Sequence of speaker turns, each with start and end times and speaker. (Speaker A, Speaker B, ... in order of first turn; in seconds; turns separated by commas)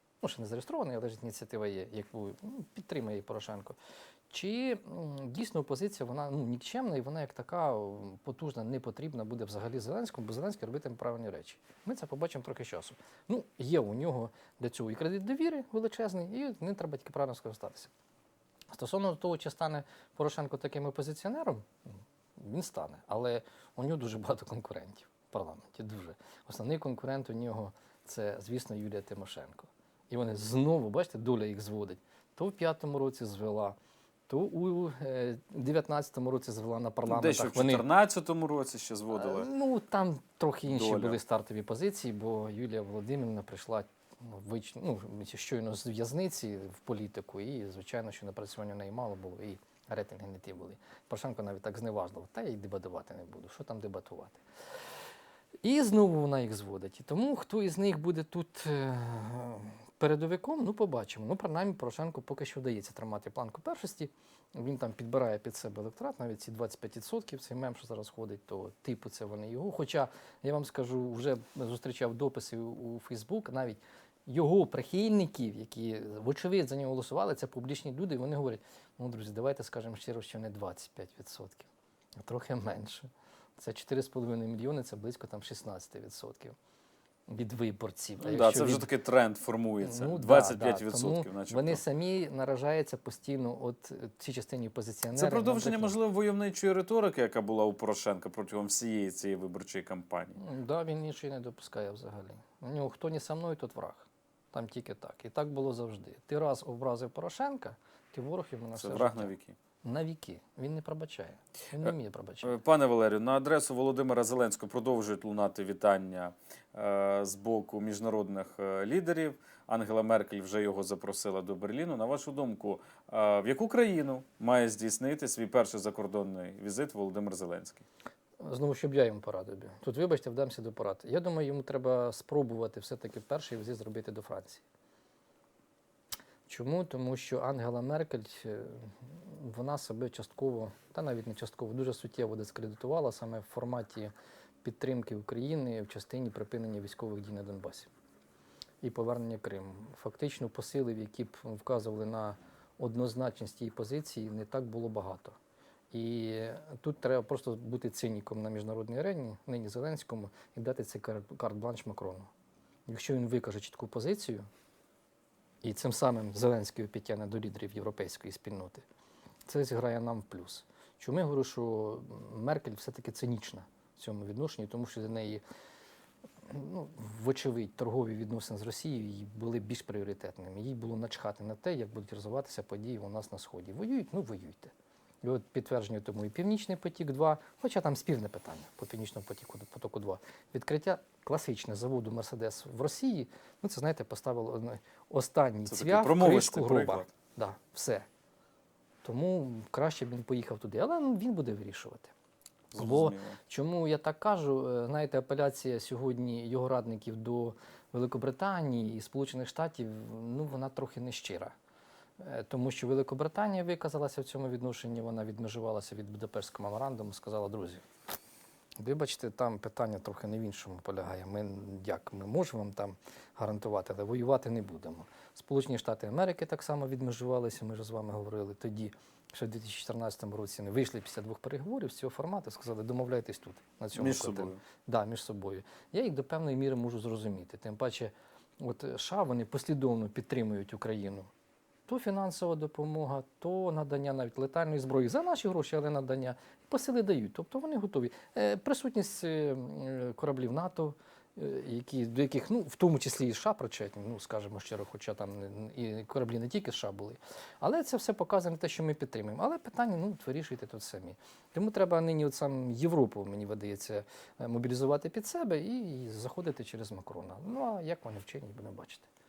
Speaker A: 0.2-3.8, Speaker A: 4.3-17.9, Speaker A: 18.7-21.8, Speaker A: 22.4-33.8, Speaker A: 34.3-37.8, Speaker B: 37.0-39.5, Speaker A: 39.1-54.4, Speaker B: 40.6-41.2, Speaker A: 55.6-81.7, Speaker A: 82.2-86.5, Speaker A: 87.3-88.9, Speaker B: 88.2-91.8, Speaker A: 89.8-96.0, Speaker B: 95.1-100.4, Speaker A: 100.4-112.6, Speaker B: 108.8-109.5, Speaker B: 112.4-127.8, Speaker A: 128.4-134.6, Speaker A: 136.5-144.1, Speaker A: 144.6-147.9, Speaker A: 148.8-155.3, Speaker A: 155.9-162.3, Speaker A: 162.9-164.4, Speaker A: 165.6-168.8, Speaker A: 169.4-175.4, Speaker A: 176.4-184.7, Speaker A: 185.2-198.1, Speaker B: 195.7-197.1, Speaker A: 199.0-202.1, Speaker B: 202.7-203.4, Speaker A: 202.8-211.5, Speaker A: 212.2-217.8, Speaker A: 218.8-241.3, Speaker B: 233.9-234.6, Speaker A: 241.9-269.1